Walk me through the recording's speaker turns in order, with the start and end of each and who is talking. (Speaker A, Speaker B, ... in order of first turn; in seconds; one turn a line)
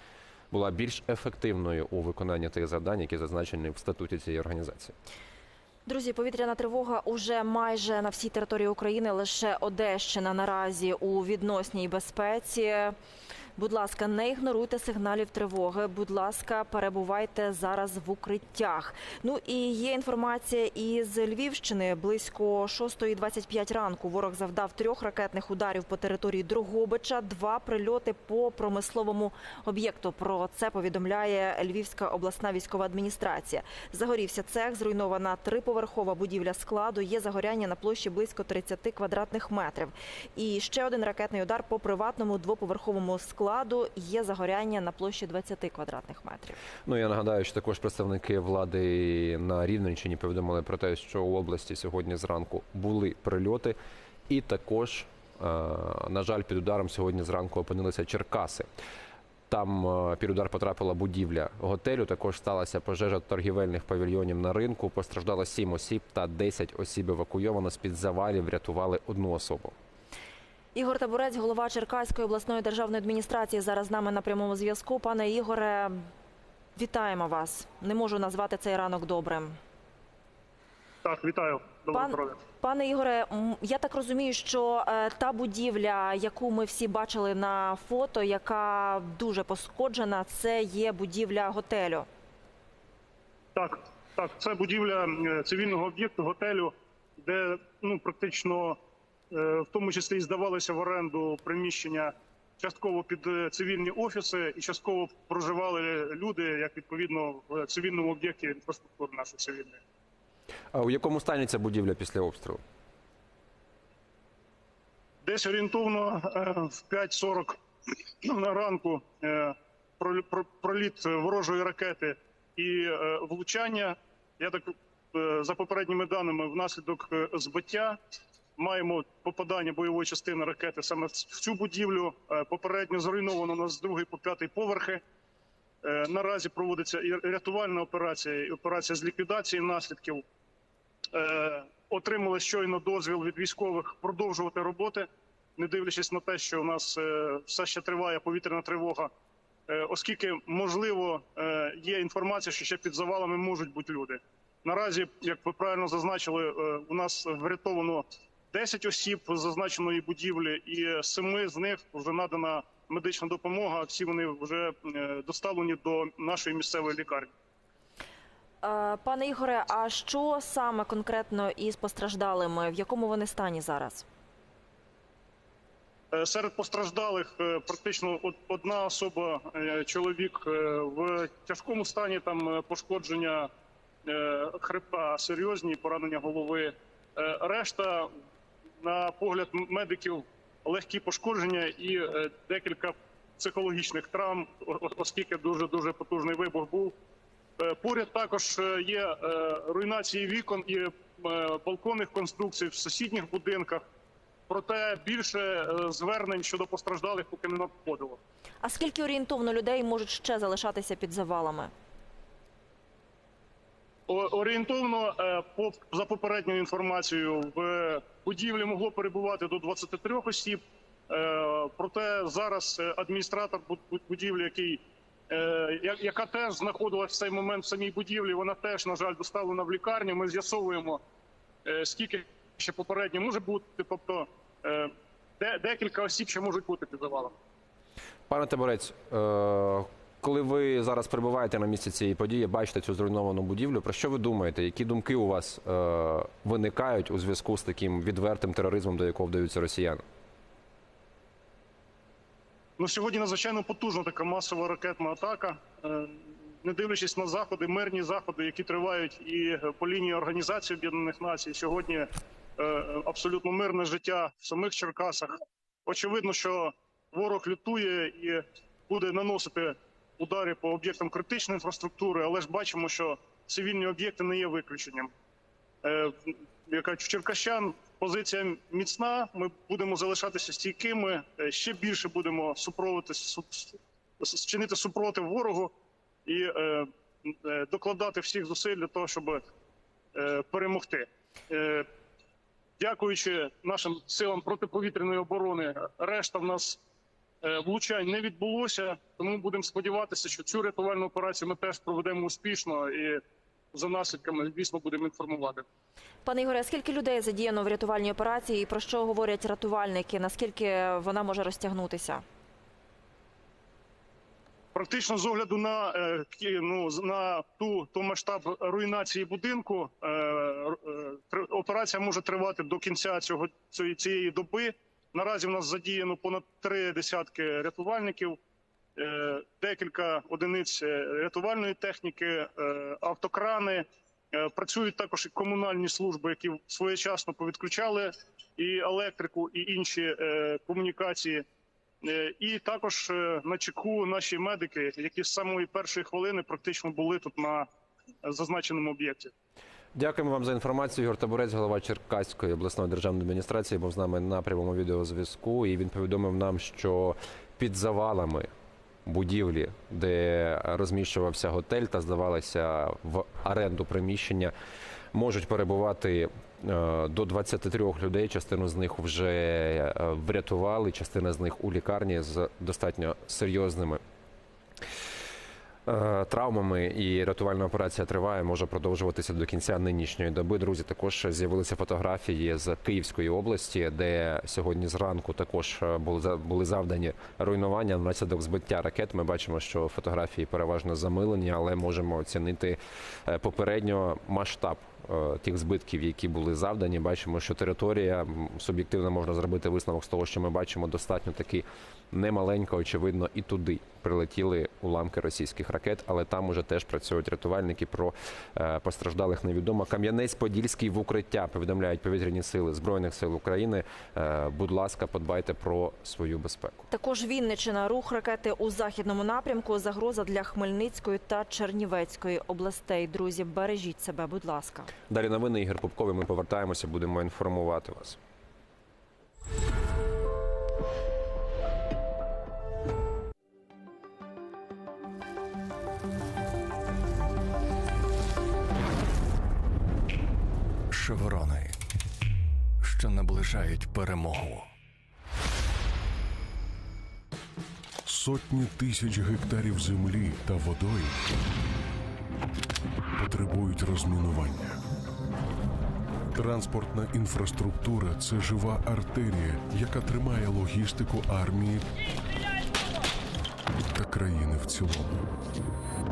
Speaker A: 0.5-4.9
Speaker B: 5.9-12.9
Speaker B: 13.6-46.6
Speaker A: 46.9-53.8
Speaker A: 54.3-58.7
Speaker A: 59.5-69.7
Speaker B: 70.8-76.0
Speaker B: 76.8-79.6
Speaker C: 81.0-82.4
Speaker B: 81.9-92.1
Speaker C: 93.5-98.8
Speaker C: 99.3-109.8
Speaker A: 110.7-112.6
Speaker C: 115.2-117.6
Speaker C: 118.2-128.0
Speaker C: 128.6-135.0
Speaker C: 135.8-140.2
Speaker C: 141.1-149.1
Speaker C: 149.7-167.3
Speaker B: 168.6-174.1
Speaker C: 176.1-183.5
Speaker C: 184.1-188.1
Speaker C: 188.8-197.0
Speaker C: 197.6-203.8
Speaker C: 204.5-208.2
Speaker B: 208.6-211.7
Speaker C: 214.1-231.0
Speaker C: 231.7-237.3
Speaker A: 238.3-250.0
Speaker C: 252.8-265.4
Speaker C: 265.9-275.1
Speaker C: 275.8-285.7
Speaker C: 286.3-289.4
Speaker C: 290.1-291.9
Speaker C: 292.8-296.8
Speaker C: 297.4-303.2
Speaker C: 303.7-305.6
Speaker B: 306.2-312.2
Speaker C: 314.7-328.4
Speaker C: 329.0-341.4
Speaker C: 342.0-347.7
Speaker C: 348.2-349.3
Speaker A: 349.9-358.5
Speaker A: 359.1-364.5
Speaker A: 365.1-374.0
Speaker A: 375.9-416.9
Speaker B: 416.9-424.9
Speaker A: 425.1-428.2
Speaker D: 440.9-441.8
Speaker D: 442.8-444.7
Speaker E: 448.1-451.2
Speaker E: 453.2-454.8
Speaker E: 456.3-461.9
Speaker E: 463.9-465.3